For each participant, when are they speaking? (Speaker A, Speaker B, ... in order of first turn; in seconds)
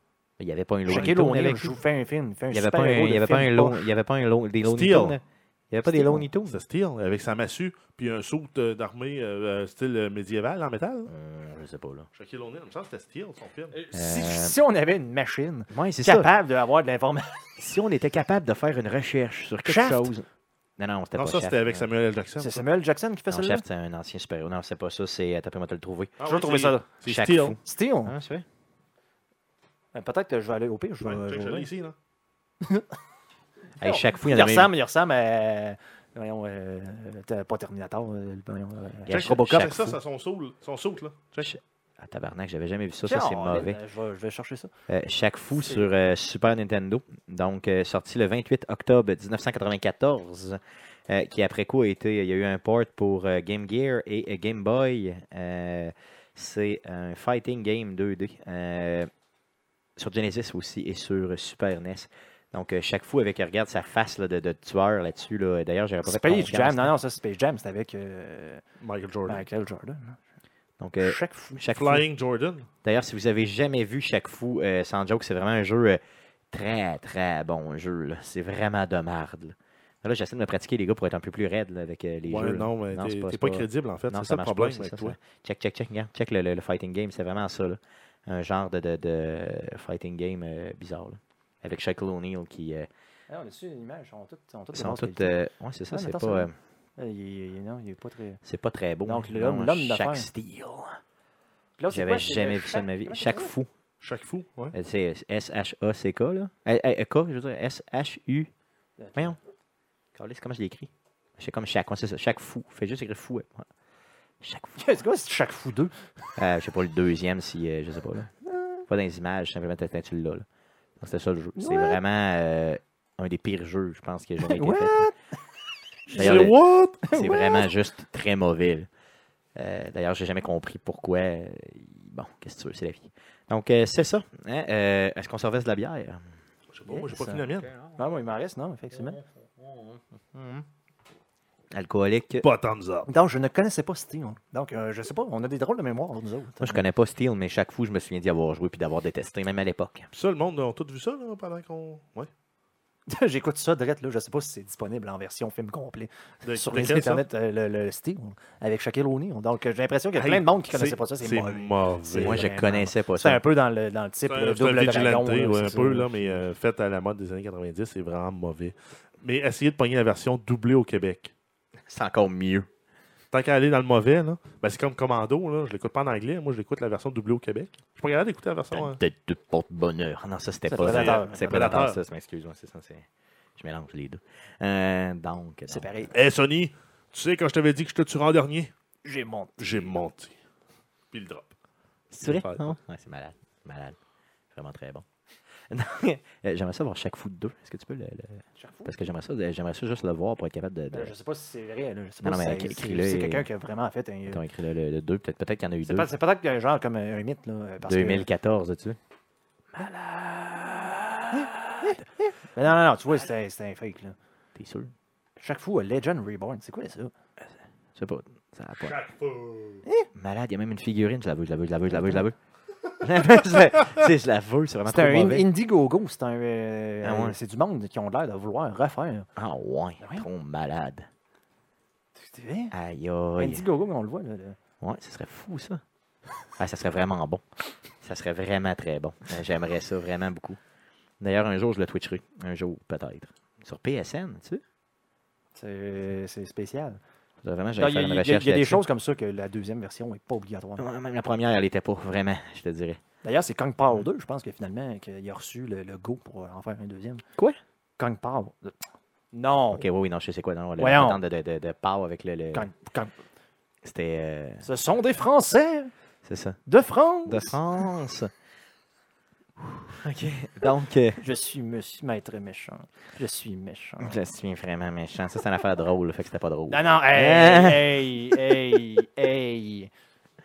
Speaker A: 0.4-1.8, 2.5-6.6, 11.1-12.1, 13.9-14.6, 15.7-16.3, 17.6-20.3, 20.8-21.9, 23.3-26.2, 27.1-28.5, 33.8-34.7, 39.1-40.0, 41.4-43.8, 44.9-59.1, 60.0-66.9, 70.8-72.0, 72.8-92.9, 94.7-96.5, 98.4-101.0, 101.9-103.7, 104.7-108.5, 110.2-113.7, 114.4-114.8, 116.4-118.3, 118.9-120.5, 121.0-125.1, 126.1-126.6, 127.1-128.9, 129.6-136.2, 137.7-138.0, 138.9-140.7, 141.7-142.4, 146.6-150.1, 162.2-163.4, 171.9-172.7, 178.7-185.9, 192.1-194.0, 194.5-195.1, 195.7-201.1, 202.2-203.5, 204.3-206.1, 207.8-209.0, 214.6-214.9, 218.0-219.0, 220.1-222.4, 223.0-225.5, 227.0-227.4, 229.4-231.1, 232.7-233.7, 234.8-235.8, 236.6-237.4, 238.0-240.6, 241.2-244.6, 247.4-248.8, 250.8-253.0, 259.7-262.7, 263.8-264.7, 266.2-266.6, 267.3-268.3, 269.8-271.2, 274.0-278.5
Speaker B: 0.9-3.8, 6.0-6.2, 13.7-17.6, 19.6-20.1, 22.4-23.6, 26.3-26.9, 27.6-28.2, 29.9-31.7, 33.8-39.9, 43.0-44.7, 45.6-45.9, 66.0-68.6, 69.3-70.2, 71.0-71.7, 93.3-95.4, 95.9-98.4, 99.0-100.3, 101.8-103.5, 109.0-109.4, 114.8-115.9, 118.5-118.8, 121.6-122.0, 124.4-125.2, 126.1-127.7, 136.9-137.4, 138.0-139.2, 143.1-146.8, 153.1-166.4, 180.7-181.9, 185.7-186.1, 189.1-189.9, 198.6-198.9, 200.9-204.4, 205.8-208.3, 209.8-214.2, 215.4-217.1, 221.9-222.2, 224.9-229.3, 230.0-230.3, 232.2-232.7, 233.4-234.6, 245.6-247.0, 247.8-250.9, 253.2-257.2, 258.0-258.8, 259.3-259.9, 260.8-261.2, 262.5-263.1, 264.6-265.9, 266.7-267.8, 271.2-274.2, 276.7-279.9
Speaker C: 4.6-5.2, 6.5-11.1, 12.2-13.8, 21.2-22.7, 26.2-27.6, 31.0-31.9, 39.1-41.5, 68.8-69.5, 71.8-72.7, 82.3-85.2, 104.0-104.7, 126.1-127.0, 136.7-137.7, 142.4-143.1, 150.1-152.3, 156.4-157.2, 160.2-162.5, 164.3-171.3, 173.3-179.0, 180.8-182.0, 186.1-188.7, 189.6-190.4, 191.1-191.5, 192.2-192.8, 218.8-219.8